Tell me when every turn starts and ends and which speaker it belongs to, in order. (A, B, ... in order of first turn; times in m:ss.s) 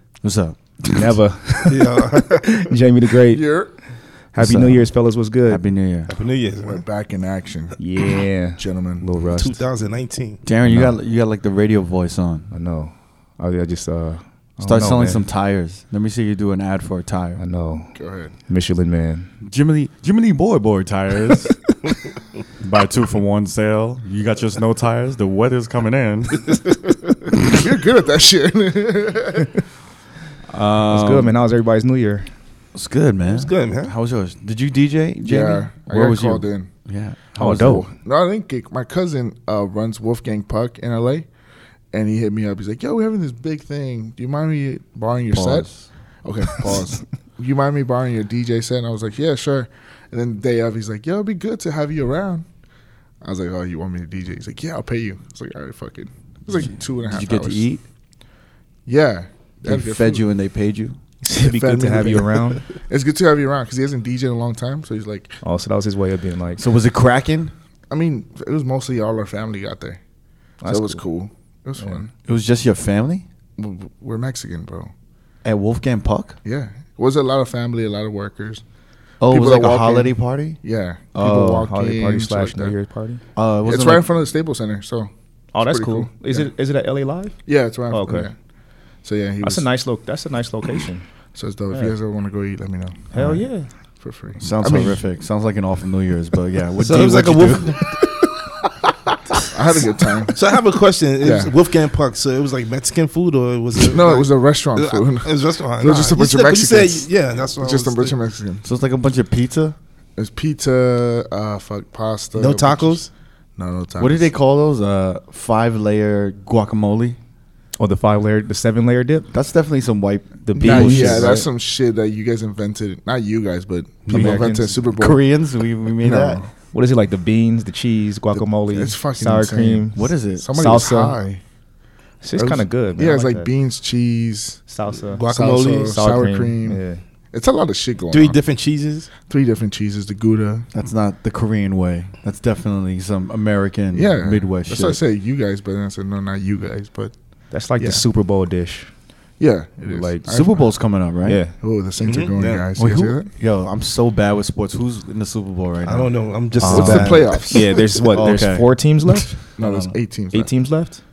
0:00.2-0:01.1 A
0:00.9-0:03.4 B
0:01.7-0:02.3 C
0:02.4-0:02.6 D
0:03.3-0:03.7 D
0:04.3-0:05.6 B
0:04.4-0:04.8 A
0:05.5-0:06.1 A
0:06.1-0:06.8 C
0:06.6-0:07.8 D
0:07.8-0:09.6 B
0:08.6-0:09.1 D
0:09.3-0:10.4 C
0:10.4-0:12.5 A
0:10.6-0:10.9 B
0:12.5-0:15.2 B
0:14.6-0:17.4 A
0:17.4-0:17.9 B
0:17.9-0:18.3 D
0:18.4-0:19.3 B
0:19.4-0:21.6 A
0:22.6-0:26.6 A
0:27.4-0:29.6 D
0:30.5-0:31.4 A
0:30.9-0:32.3 B
0:32.7-0:37.9 A
0:33.3-0:33.9 C
0:35.2-0:36.7 D
0:37.4-0:37.9 B
0:37.9-0:41.3 D
0:41.9-0:45.6 D
0:45.3-0:45.9 A
0:46.2-0:52.4 D
0:53.2-0:57.6 D
0:57.0-0:57.8 A
0:58.8-1:00.2 D
0:59.6-1:01.0 A
1:01.2-1:02.6 B
1:01.3-1:05.4 D
1:05.4-1:06.6 B
1:06.6-1:07.5 A
1:07.9-1:10.0 D
1:10.6-1:11.0 B
1:10.7-1:12.1 D
1:12.2-1:13.2 A
1:13.6-1:14.9 D
1:15.4-1:16.4 A
1:16.4-1:18.6 D
1:19.2-1:20.6 A
1:19.2-1:22.7 D
1:21.1-1:21.7 A
1:21.6-1:23.2 B
1:23.4-1:24.0 A
1:23.6-1:26.5 D
1:25.5-1:27.4 B
1:27.4-1:28.3 D
1:27.9-1:28.3 B
1:29.0-1:29.7 D
1:29.4-1:31.1 B
1:31.3-1:33.1 D
1:31.7-1:31.9 B
1:33.1-1:33.7 B
1:33.1-1:33.4 A
1:34.0-1:35.0 D
1:34.4-1:38.0 A
1:36.8-1:38.3 C
1:39.5-1:40.4 D
1:40.3-1:48.2 C
1:41.2-1:41.5 D
1:43.8-1:47.1 D
1:47.6-1:48.6 D
1:48.6-1:49.8 A
1:50.2-1:53.0 D
1:52.3-1:53.1 C
1:53.6-1:54.3 D
1:54.0-1:57.2 A
1:57.8-1:59.3 B
1:59.3-2:01.4 A
2:00.4-2:01.5 B
2:00.6-2:05.2 D
2:04.1-2:04.8 B
2:04.1-2:06.5 A
2:06.0-2:06.5 D
2:06.7-2:11.2 B
2:08.3-2:11.4 D
2:09.9-2:10.9 A
2:12.2-2:13.5 B
2:12.4-2:14.6 D
2:14.7-2:17.0 B
2:15.1-2:16.0 C
2:15.2-2:18.4 D
2:18.1-2:19.1 C
2:19.3-2:20.6 D
2:20.7-2:25.0 A
2:23.9-2:27.1 D
2:27.5-2:28.9 B
2:29.4-2:30.6 D
2:29.8-2:30.3 B
2:30.2-2:31.4 A
2:31.2-2:31.5 B
2:31.6-2:33.3 D
2:32.0-2:32.7 C
2:32.8-2:36.1 A
2:35.8-2:37.9 C
2:36.6-2:39.4 B
2:36.7-2:37.8 D
2:36.7-2:37.2 A
2:38.1-2:38.6 A
2:39.6-2:40.5 D
2:39.6-2:40.0 A
2:40.3-2:41.0 B